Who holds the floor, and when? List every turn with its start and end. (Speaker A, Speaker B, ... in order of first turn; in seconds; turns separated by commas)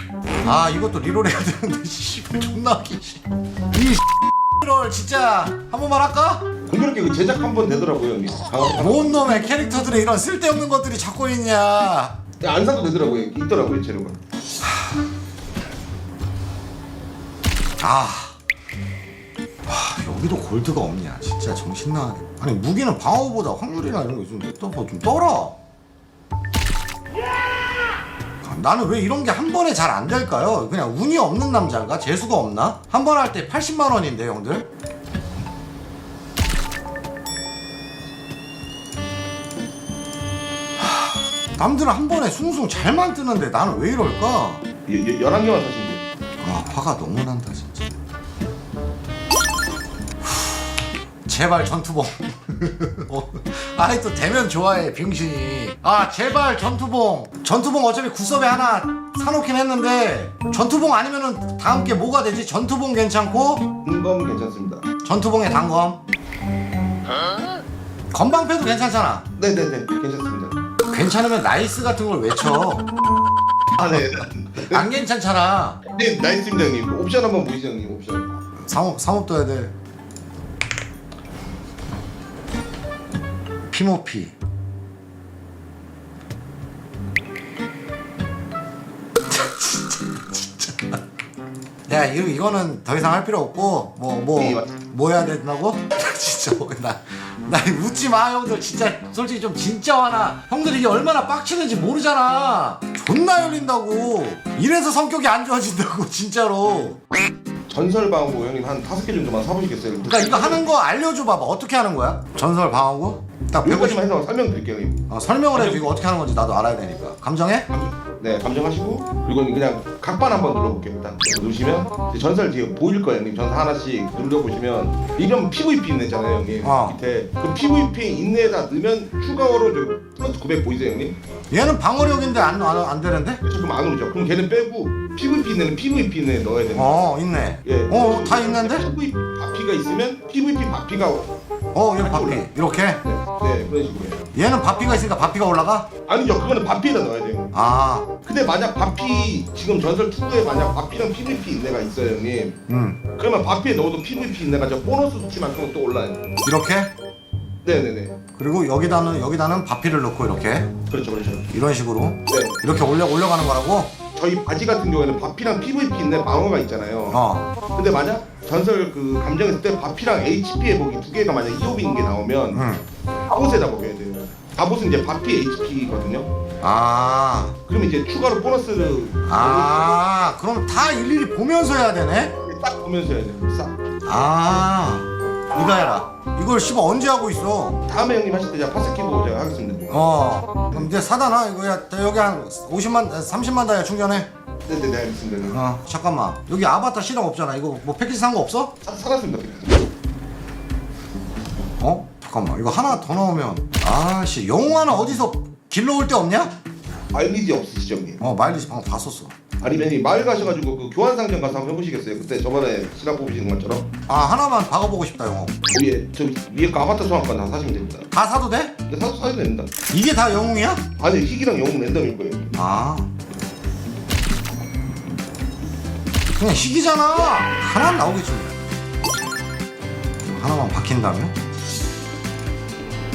Speaker A: 0.4-4.0, Speaker A: 4.6-6.4, Speaker B: 6.7-9.5, Speaker A: 8.7-12.1, Speaker B: 12.4-14.2, Speaker A: 17.8-18.4, Speaker A: 19.6-25.6, Speaker A: 28.4-34.7, Speaker A: 41.5-44.6, Speaker B: 44.9-46.0, Speaker A: 46.4-47.9, Speaker A: 51.2-63.7, Speaker B: 63.8-64.8, Speaker A: 65.0-66.0, Speaker A: 68.1-69.2, Speaker B: 69.3-70.6, Speaker A: 70.9-72.9, Speaker B: 73.8-74.9, Speaker A: 74.6-75.8, Speaker B: 75.9-78.4, Speaker A: 78.6-79.7, Speaker A: 83.7-84.3, Speaker A: 89.3-91.0, Speaker A: 91.9-107.0, Speaker B: 94.4-94.7, Speaker B: 107.7-110.7, Speaker A: 110.0-114.0, Speaker B: 113.6-115.0, Speaker A: 115.1-117.7, Speaker B: 115.5-115.9, Speaker B: 117.7-131.2, Speaker A: 126.6-127.0, Speaker A: 131.5-133.4, Speaker B: 133.4-137.0, Speaker A: 136.7-138.8, Speaker B: 137.6-141.3, Speaker A: 141.7-143.0, Speaker B: 141.9-144.2, Speaker A: 144.3-145.9, Speaker B: 146.1-147.5, Speaker A: 147.5-148.1, Speaker B: 148.2-152.6, Speaker A: 152.7-153.0, Speaker B: 153.2-156.2, Speaker A: 156.4-156.9, Speaker B: 157.6-158.2, Speaker A: 158.3-160.7, Speaker B: 160.9-161.5, Speaker A: 161.5-163.9, Speaker B: 162.3-162.6, Speaker B: 164.1-167.2, Speaker A: 167.1-167.5, Speaker B: 167.7-172.6, Speaker A: 172.5-172.8, Speaker B: 173.3-176.3, Speaker A: 176.6-177.6, Speaker B: 177.7-180.0, Speaker A: 179.2-182.3, Speaker B: 182.4-183.8, Speaker A: 184.1-187.8, Speaker B: 187.8-190.1, Speaker A: 189.9-194.3, Speaker B: 194.7-195.6, Speaker A: 195.4-198.7, Speaker B: 198.8-199.7, Speaker A: 201.8-206.5, Speaker B: 207.1-208.2, Speaker A: 208.2-209.3, Speaker B: 209.6-213.9, Speaker A: 214.1-215.5, Speaker B: 215.7-218.1, Speaker A: 218.1-218.7, Speaker B: 218.8-219.7, Speaker A: 219.9-220.8, Speaker B: 221.0-222.5, Speaker A: 222.5-223.1, Speaker A: 226.4-228.5, Speaker A: 230.2-231.3